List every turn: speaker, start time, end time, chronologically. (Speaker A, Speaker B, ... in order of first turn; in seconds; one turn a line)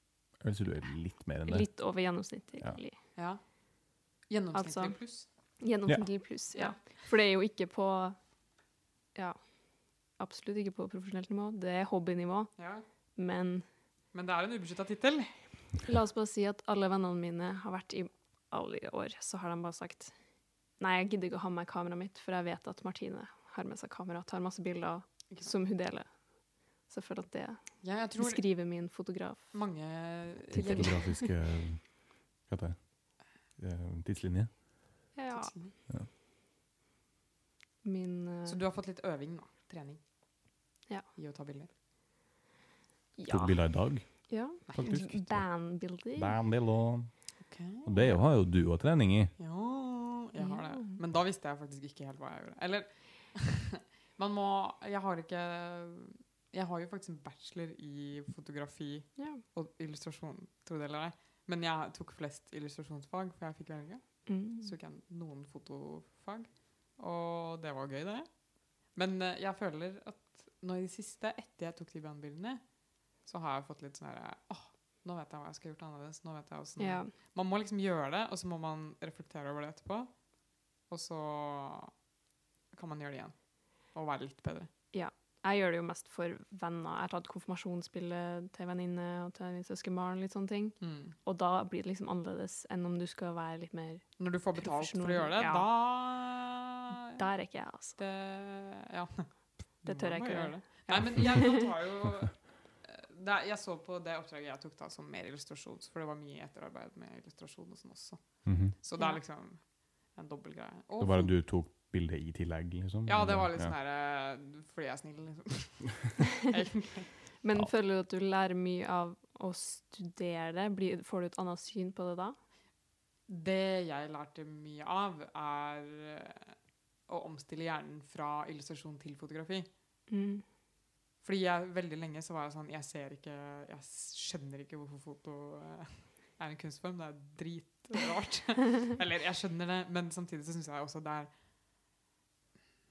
Speaker A: 0.4-2.0
Speaker B: 1.4-3.0
Speaker C: 3.1-5.3
Speaker B: 4.5-8.2
Speaker C: 6.5-7.0
Speaker B: 9.1-13.7
Speaker C: 12.6-12.8
Speaker C: 14.1-15.4
Speaker B: 15.8-20.1
Speaker B: 20.8-29.6
Speaker C: 27.8-28.5
Speaker C: 29.5-31.0
Speaker A: 30.5-34.5
Speaker B: 30.5-31.3
Speaker B: 35.1-35.5
Speaker C: 35.3-35.7
Speaker B: 37.8-38.6
Speaker C: 38.4-40.0
Speaker C: 41.1-41.7
Speaker B: 43.2-46.4
Speaker A: 43.3-49.3
Speaker C: 44.7-45.0
Speaker C: 47.4-48.2
Speaker C: 49.4-80.3
Speaker B: 50.4-51.0
Speaker B: 59.2-59.4
Speaker B: 64.2-64.7
Speaker B: 76.8-77.1
Speaker C: 80.8-81.9
Speaker C: 82.7-84.7
Speaker B: 84.9-95.7
Speaker C: 90.8-91.2
Speaker C: 94.2-96.9
Speaker B: 97.1-98.0
Speaker C: 98.0-111.3
Speaker B: 99.8-101.7
Speaker A: 108.4-108.7
Speaker A: 111.0-113.7
Speaker C: 113.0-117.2
Speaker B: 117.4-122.3
Speaker C: 123.3-126.5
Speaker C: 127.1-129.7
Speaker B: 130.1-130.4
Speaker C: 131.2-141.3